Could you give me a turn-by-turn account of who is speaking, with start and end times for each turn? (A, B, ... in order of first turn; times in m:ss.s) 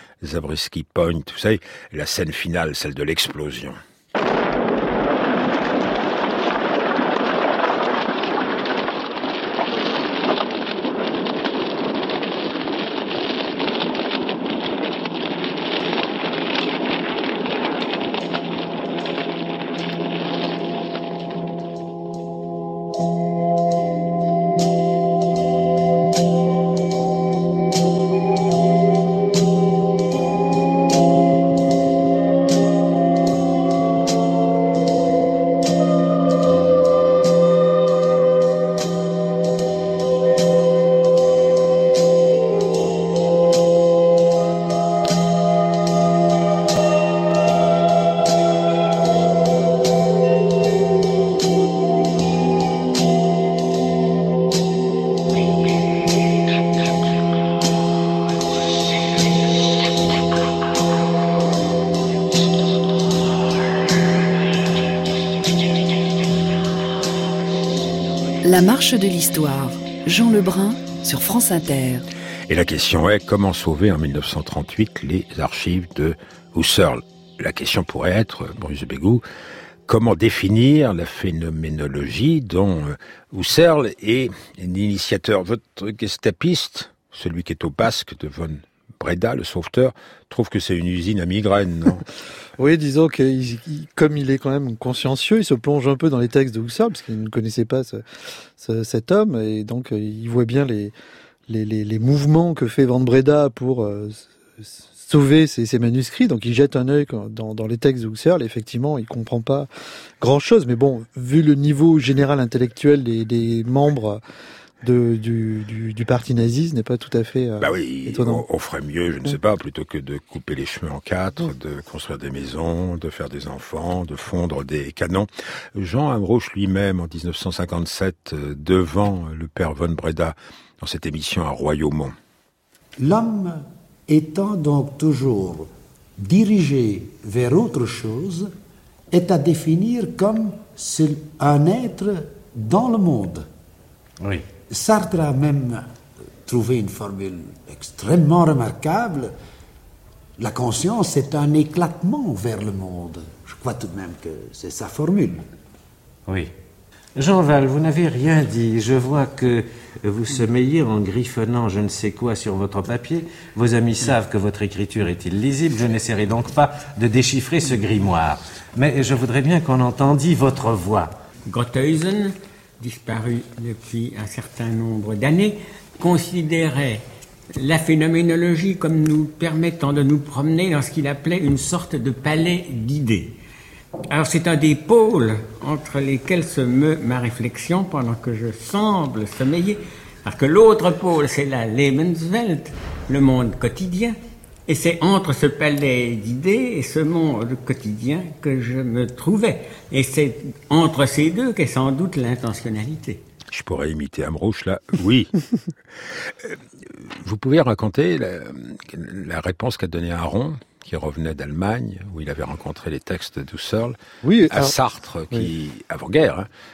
0:00.2-0:03.8 A
1:08.4-1:12.1 B
1:12.5-1:19.2 A
1:19.9-1:32.0 A
1:32.6-1:38.0 C
1:38.6-1:40.9 C
1:41.5-1:44.2 C
1:45.0-1:49.7 C
1:50.2-1:54.2 C
1:54.8-1:58.4 C
1:57.6-2:12.1 A
2:13.0-2:18.5 D
2:19.1-2:23.5 D
2:24.7-2:25.9 D
2:26.4-2:29.3 D
2:30.4-2:35.4 D
2:37.1-2:51.1 E
2:51.5-2:57.0 F
2:57.6-3:03.3 F
3:04.1-3:14.2 F
3:14.7-3:23.2 F
3:23.5-3:25.4 A
3:27.2-3:34.0 A
3:34.2-3:34.7 C
3:34.5-3:36.5 A